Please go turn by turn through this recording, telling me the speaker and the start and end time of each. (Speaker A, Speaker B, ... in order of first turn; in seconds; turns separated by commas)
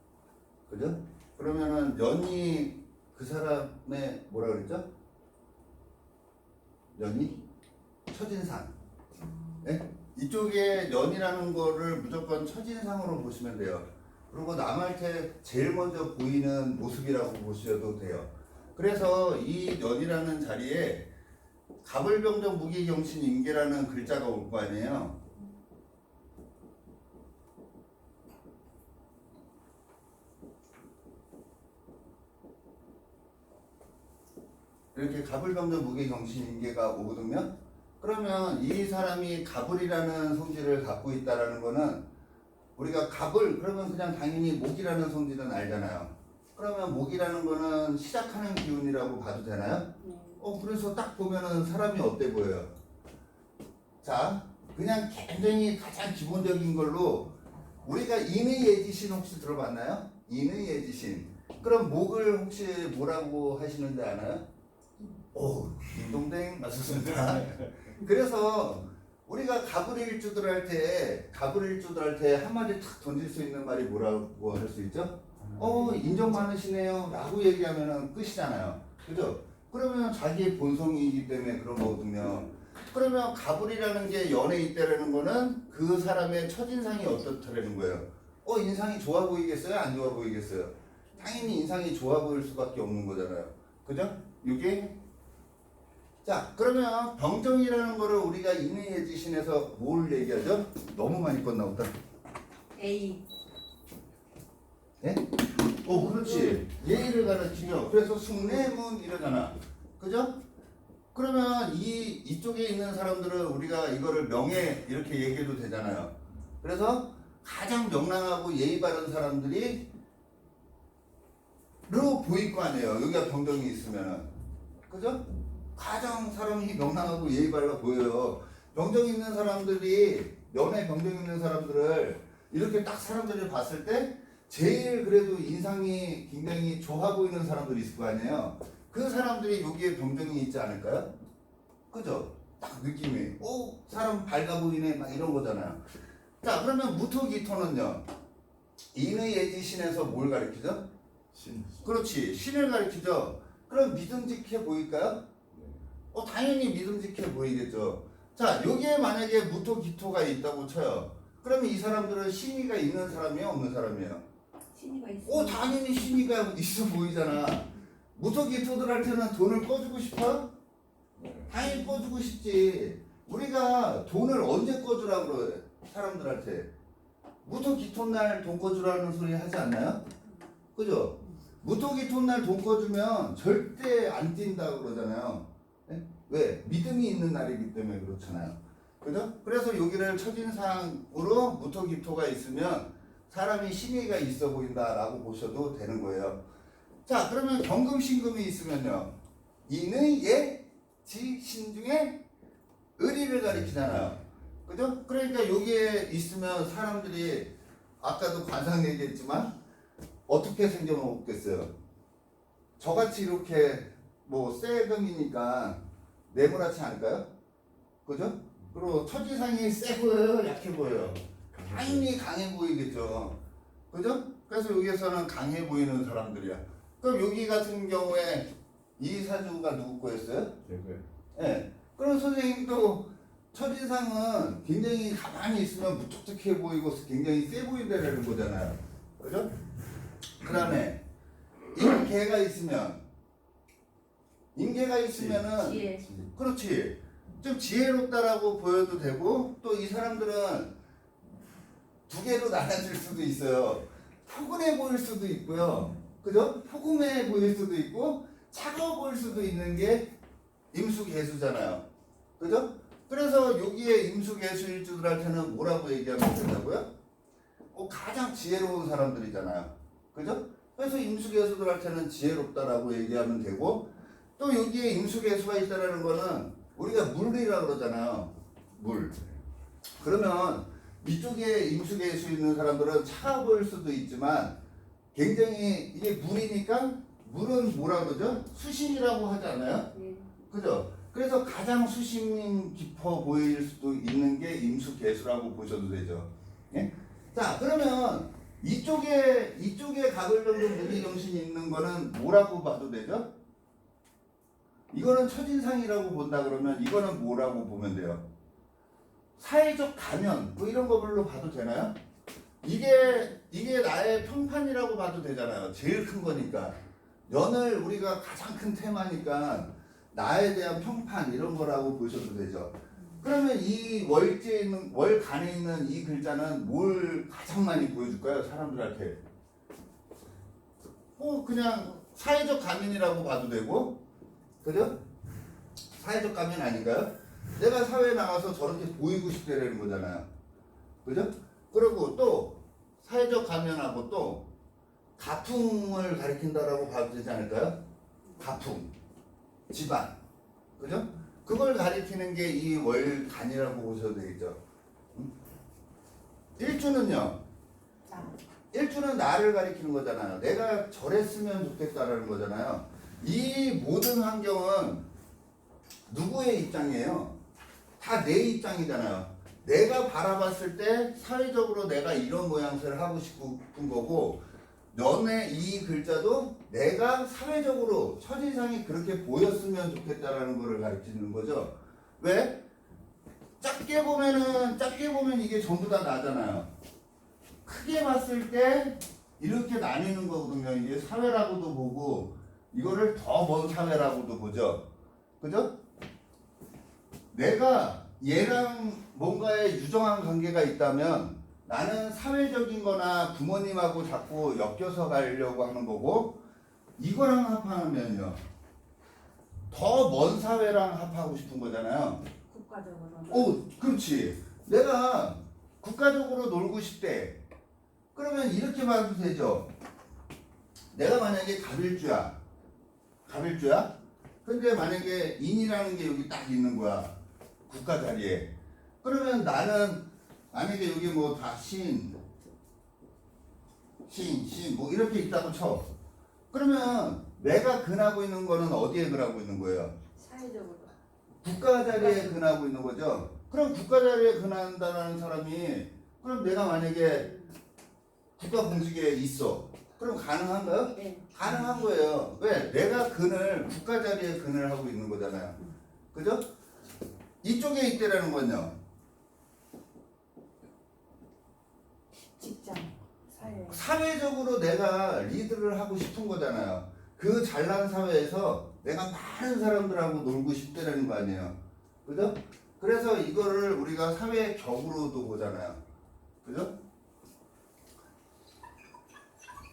Speaker A: 0.7-4.9, Speaker A: 6.9-7.4, Speaker A: 8.1-8.7, Speaker A: 9.6-21.1, Speaker A: 21.8-25.2, Speaker A: 34.9-42.0, Speaker A: 42.8-52.7, Speaker B: 50.0-50.4, Speaker A: 54.0-64.5, Speaker A: 65.3-95.0, Speaker B: 75.6-76.1, Speaker A: 96.2-101.9, Speaker B: 102.7-103.2, Speaker A: 105.8-110.3, Speaker B: 105.9-106.6, Speaker A: 111.1-119.8, Speaker A: 121.9-124.3, Speaker A: 124.9-125.2, Speaker A: 125.7-141.1, Speaker A: 141.9-145.8, Speaker A: 146.4-148.1, Speaker A: 148.9-150.8, Speaker C: 151.3-152.0, Speaker A: 151.8-155.2, Speaker C: 155.5-155.8, Speaker A: 156.1-164.2, Speaker B: 164.7-165.8, Speaker A: 165.2-170.5, Speaker C: 171.2-171.5, Speaker A: 171.5-176.7, Speaker A: 177.4-180.0, Speaker A: 180.7-196.4, Speaker A: 197.1-199.1, Speaker A: 199.7-202.2, Speaker A: 203.0-209.5, Speaker A: 210.3-211.7, Speaker A: 212.8-217.3, Speaker A: 218.0-223.4, Speaker C: 221.5-222.1, Speaker A: 223.9-230.6, Speaker C: 230.6-231.0, Speaker A: 231.3-239.5, Speaker A: 240.4-241.0, Speaker A: 241.7-243.0, Speaker A: 244.5-250.7, Speaker C: 245.2-245.4, Speaker B: 245.5-246.0, Speaker A: 252.1-260.1, Speaker A: 260.7-261.8, Speaker A: 262.4-266.9, Speaker A: 267.7-279.2, Speaker A: 280.0-284.6, Speaker A: 285.1-289.9, Speaker B: 289.9-290.2, Speaker A: 290.5-303.3, Speaker A: 304.9-308.2, Speaker A: 309.4-312.0, Speaker A: 312.6-329.2, Speaker A: 331.2-334.0, Speaker A: 334.6-335.0, Speaker A: 336.0-340.3, Speaker A: 341.0-344.5, Speaker A: 345.2-347.8, Speaker A: 348.4-348.9, Speaker A: 349.7-350.2, Speaker A: 350.8-354.6, Speaker A: 356.6-357.4, Speaker B: 358.1-358.4, Speaker A: 358.7-365.1, Speaker A: 366.1-367.4, Speaker A: 368.0-382.6, Speaker A: 383.6-386.7, Speaker A: 387.6-394.9, Speaker A: 395.4-395.7, Speaker A: 397.3-406.4, Speaker A: 407.0-408.4, Speaker A: 409.7-412.2, Speaker B: 412.5-413.6, Speaker A: 413.3-417.4, Speaker A: 418.1-419.7, Speaker A: 420.9-422.4, Speaker A: 423.2-423.9, Speaker A: 424.4-427.1, Speaker A: 427.7-428.5, Speaker A: 429.0-432.2, Speaker A: 434.1-435.9, Speaker A: 436.5-439.9, Speaker B: 440.1-440.9, Speaker A: 441.4-447.3, Speaker A: 448.4-455.6, Speaker B: 450.9-451.2, Speaker A: 456.1-456.4, Speaker A: 457.4-458.8, Speaker B: 462.4-463.8, Speaker A: 463.7-475.8, Speaker A: 476.4-476.8